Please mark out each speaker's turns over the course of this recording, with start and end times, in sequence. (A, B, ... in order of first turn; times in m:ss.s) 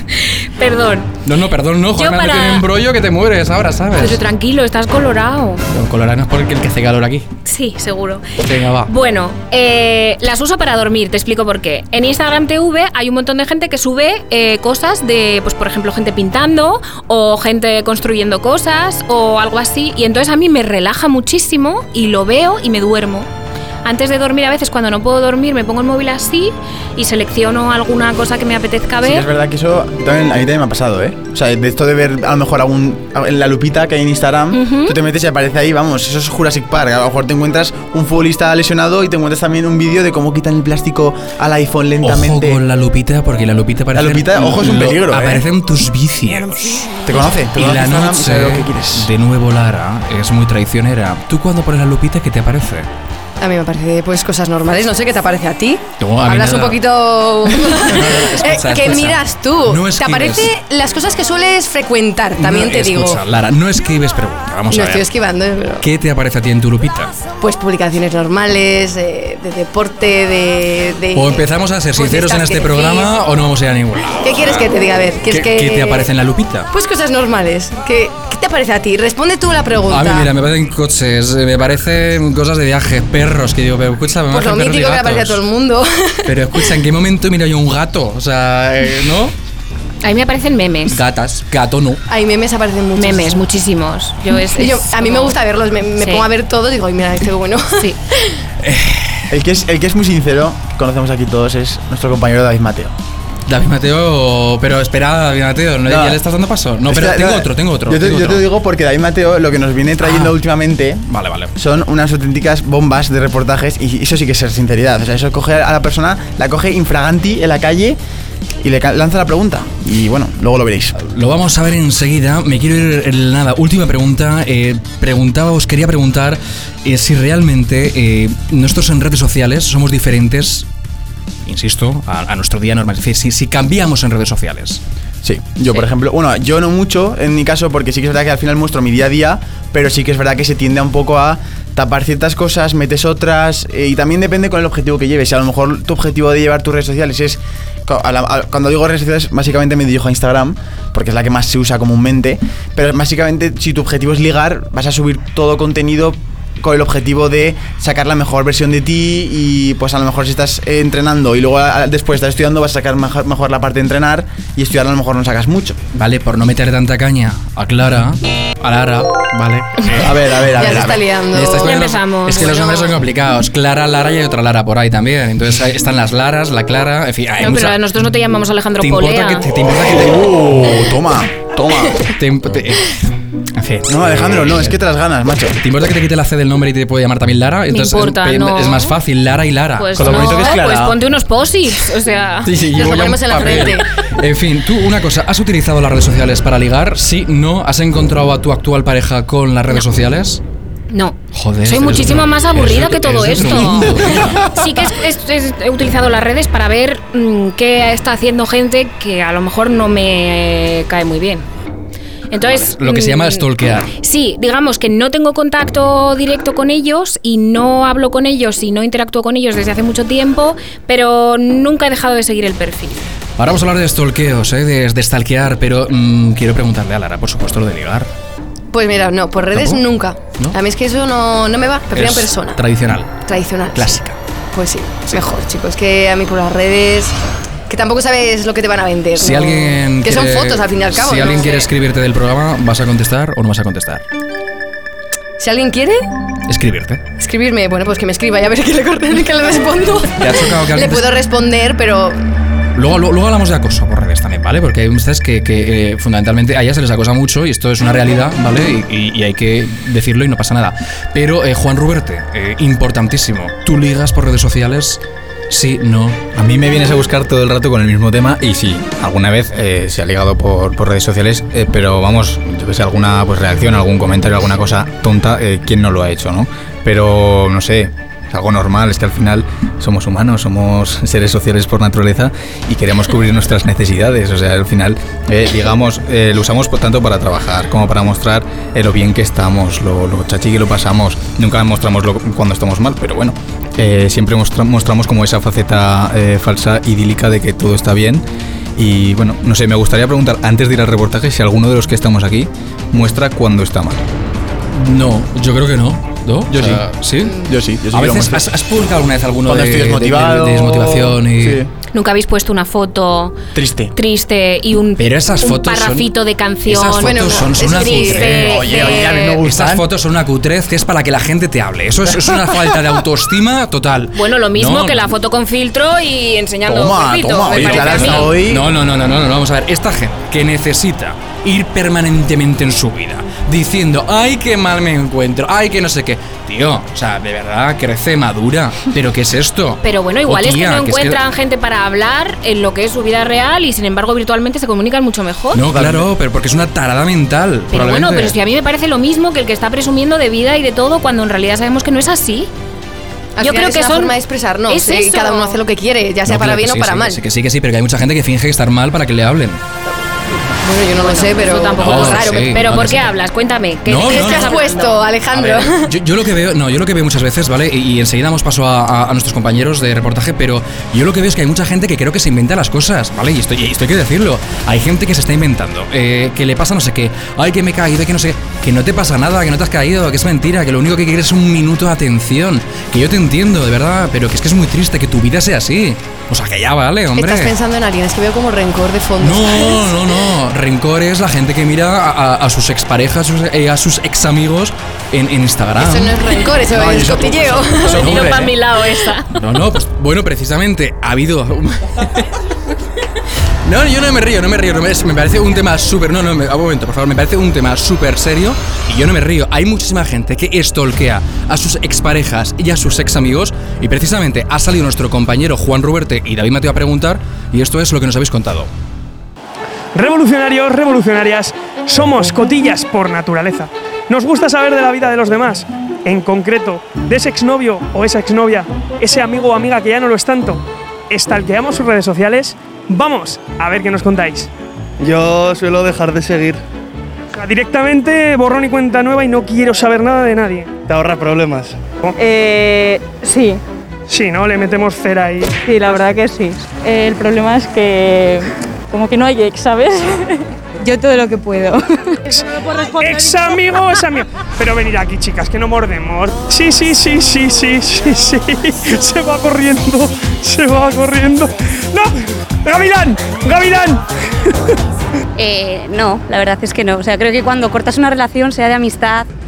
0:00.6-0:01.1 A
0:01.2-0:04.2 B
0:02.0-0:02.6 A
0:04.0-0:05.6 A
0:05.7-0:07.3 B
0:07.4-0:08.3 A
0:08.4-0:08.9 B
0:08.9-0:23.3 A
0:23.8-0:29.3 A
0:29.0-0:42.6 C
0:34.5-0:35.0 A
0:42.0-0:47.0 B
0:44.0-0:45.4 C
0:47.0-0:49.1 C
0:47.5-0:52.9 B
0:53.4-1:03.2 D
0:56.0-0:56.8 B
0:57.5-1:00.5 B
1:02.4-1:05.0 B
1:04.7-1:05.8 D
1:05.8-1:07.1 B
1:07.4-1:13.1 D
1:11.1-1:14.6 B
1:14.2-1:16.1 D
1:15.2-1:16.7 B
1:16.7-1:20.3 D
1:19.9-1:25.4 B
1:24.3-1:26.3 D
1:26.2-1:29.3 B
1:30.0-1:31.0 A
1:30.9-1:32.0 B
1:32.1-1:33.4 D
1:33.0-1:35.4 A
1:34.5-1:38.3 D
1:36.0-1:36.2 A
1:38.6-1:39.3 B
1:39.3-1:42.9 C
1:43.5-1:48.4 B
1:45.8-1:46.2 C
1:46.9-1:51.0 C
1:50.0-1:50.3 B
1:51.1-1:51.5 B
1:51.6-1:58.0 C
1:58.6-2:01.0 C
2:01.0-2:10.7 B
2:11.4-2:14.8 B
2:15.2-2:45.8 C
2:45.9-2:57.9 B
2:49.9-2:51.0 C
2:50.5-2:51.7 D
2:51.6-2:53.0 A
2:57.4-2:59.4 A
2:58.8-3:00.9 B
2:59.8-3:02.1 C
3:02.2-3:04.8 B
3:03.9-3:05.6 C
3:05.6-3:10.8 B
3:07.7-3:08.9 A
3:09.8-3:12.5 A
3:10.0-3:10.9 C
3:12.4-3:20.4 B
3:12.6-3:13.9 D
3:20.9-3:31.4 A
3:21.3-3:24.4 B
3:32.3-3:33.4 A
3:32.5-3:33.9 B
3:34.0-3:43.0 A
3:43.4-3:48.1 B
3:48.7-3:52.6 D
3:49.5-3:49.8 B
3:51.9-3:53.2 B
3:53.2-3:57.2 D
3:53.7-3:54.2 B
3:57.7-4:01.7 D
3:59.2-4:04.0 B
4:01.2-4:01.7 A
4:05.4-4:06.1 D
4:06.5-4:07.0 B
4:07.2-4:12.2 D
4:10.2-4:11.0 B
4:12.7-4:26.2 B
4:26.3-4:58.2 E
4:58.8-5:04.0 E
5:04.7-5:07.4 B
5:06.5-5:06.8 C
5:07.4-5:08.4 C
5:07.9-5:11.6 B
5:09.4-5:11.7 C
5:11.9-5:13.4 A
5:13.5-5:13.9 C
5:13.9-5:19.4 A
5:15.0-5:16.1 B
5:16.6-5:18.6 B
5:17.0-5:18.4 D
5:18.3-5:19.8 C
5:19.4-5:25.0 B
5:24.1-5:28.4 A
5:26.7-5:28.7 C
5:27.5-5:41.2 B
5:39.8-5:45.6 A
5:45.5-5:48.4 B
5:45.7-5:46.1 C
5:47.7-5:52.5 A
5:53.4-5:57.2 D
5:53.4-5:54.2 A
5:54.7-5:55.6 A
5:56.2-5:59.6 B
6:00.6-6:02.5 D
6:01.0-6:05.0 A
6:01.8-6:03.1 B
6:03.8-6:04.6 B
6:04.0-6:05.9 D
6:05.3-6:27.5 B
6:27.2-6:29.9 D
6:29.2-6:36.1 B
6:35.8-6:38.0 D
6:36.7-6:38.5 C
6:37.9-6:38.5 B
6:37.9-6:39.3 A
6:39.3-6:42.3 B
6:43.6-6:58.7 B
6:59.9-7:14.5 F
7:15.0-7:16.6 G
7:17.3-7:20.7 F
7:20.9-7:21.8 G
7:22.2-7:23.6 H
7:24.1-7:25.6 F
7:25.6-7:32.2 H
7:33.0-7:44.6 F
7:33.0-7:33.4 H
7:45.4-7:49.3 I